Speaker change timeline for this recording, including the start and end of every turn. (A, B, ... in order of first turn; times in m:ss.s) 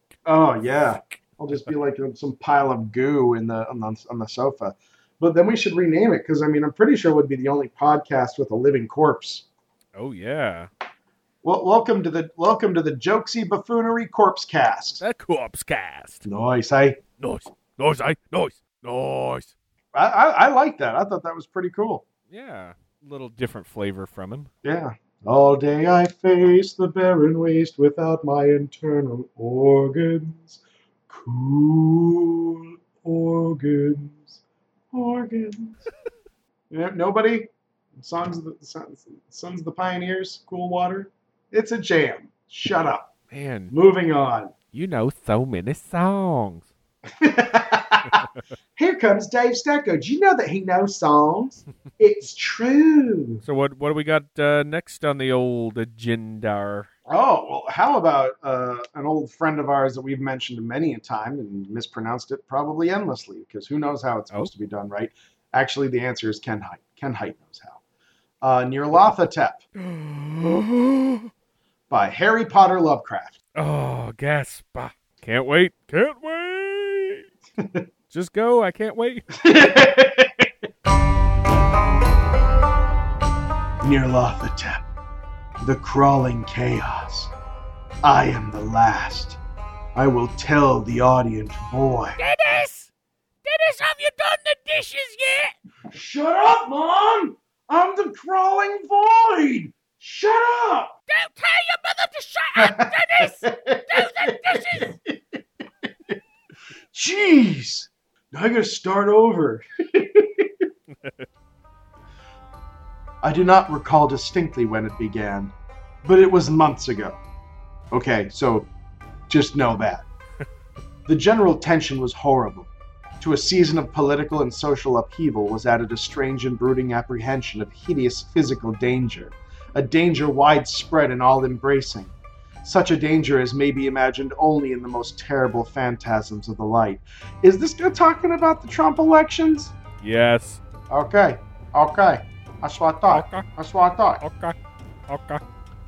0:00.2-0:09.4 A
0:09.9-0:10.7 B
0:11.4-0:15.0 A
0:15.0-0:16.2 B
0:16.2-0:17.0 A
0:17.2-0:19.5 B
0:19.9-0:22.0 A
0:22.3-0:24.5 B
0:24.6-0:34.4 A
0:34.9-0:35.8 A
0:36.7-0:43.1 A
0:43.3-0:43.7 B
0:43.7-0:44.5 A
0:44.7-0:46.7 B
0:47.2-0:53.4 A
0:53.4-0:56.9 B
0:57.1-1:07.8 A
1:08.4-1:09.6 A
1:09.8-1:11.3 B
1:11.9-1:13.4 A
1:13.5-1:17.2 B
1:17.6-1:17.8 A
1:18.1-1:19.2 B
1:19.3-1:20.5 A
1:23.8-1:24.8 A
1:25.6-1:27.3 A
1:28.0-1:29.4 A
1:29.9-1:32.2 A
1:32.2-1:32.9 C
1:33.4-1:35.5 C
1:35.9-1:40.9 A
1:41.1-1:44.9 C
1:42.5-1:45.2 A
1:46.9-1:50.5 A
1:53.2-1:55.5 A
1:56.0-1:57.2 A
1:57.9-1:58.7 A
1:59.3-2:00.0 A
2:01.1-2:02.7 A
2:03.2-2:19.7 A
2:20.0-2:20.6 B
2:20.9-2:24.2 A
2:23.1-2:23.4 B
2:24.2-2:24.6 B
2:25.1-2:25.4 B